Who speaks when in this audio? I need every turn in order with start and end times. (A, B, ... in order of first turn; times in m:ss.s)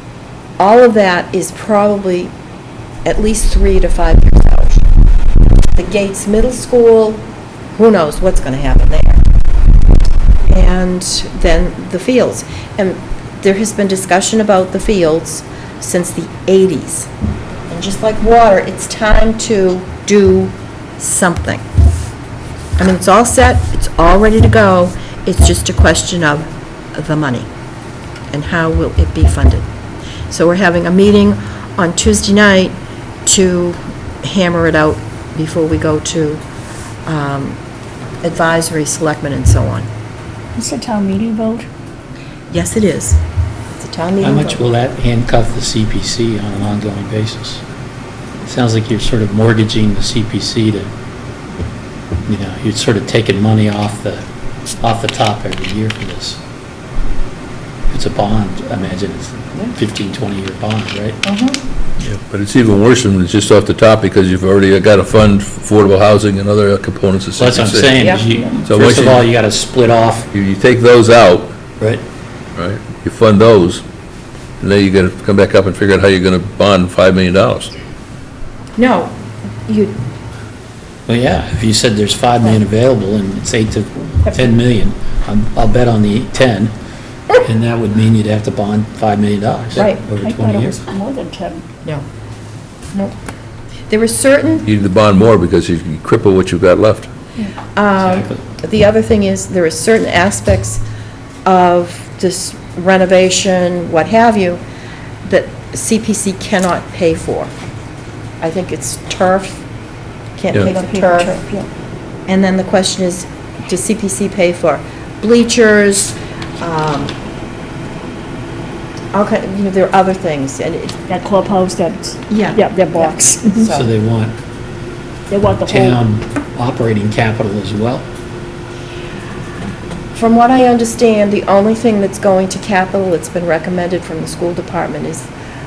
0:00.6-0:02.3 A
0:03.0-0:04.9 A
0:05.8-0:07.2 A
0:07.8-0:09.2 A
0:10.5-0:17.1 A
0:17.7-0:21.6 A
0:22.8-0:27.5 A
0:28.3-0:29.7 A
0:30.3-0:32.8 A
0:33.3-0:36.4 A
0:37.1-0:37.6 A
0:38.2-0:39.9 A
0:40.6-0:41.7 B
0:42.5-0:43.2 A
0:43.7-0:44.6 A
0:44.2-0:47.6 C
0:48.4-0:50.9 C
0:52.3-0:54.2 C
0:54.8-0:56.4 C
0:57.9-1:01.2 C
1:01.2-1:01.6 A
1:02.0-1:08.0 D
1:07.4-1:10.3 C
1:08.0-1:08.4 A
1:08.7-1:09.2 D
1:10.3-1:11.5 D
1:12.6-1:13.8 D
1:14.6-1:17.7 D
1:18.8-1:19.2 A
1:19.7-1:20.0 A
1:21.1-1:26.7 C
1:27.4-1:30.8 C
1:29.8-1:30.0 A
1:30.2-1:31.6 B
1:33.9-1:34.7 A
1:34.6-1:37.1 D
1:37.8-1:40.8 A
1:38.0-1:38.4 C
1:41.4-1:44.6 A
1:45.2-1:47.5 A
1:48.4-1:49.6 A
1:50.4-1:51.4 A
1:50.6-1:51.7 B
1:52.3-1:57.2 A
1:59.1-2:01.0 A
2:01.1-2:03.7 B
2:02.3-2:03.9 A
2:03.7-2:04.4 C
2:05.3-2:06.0 B
2:05.6-2:08.1 C
2:10.1-2:15.3 A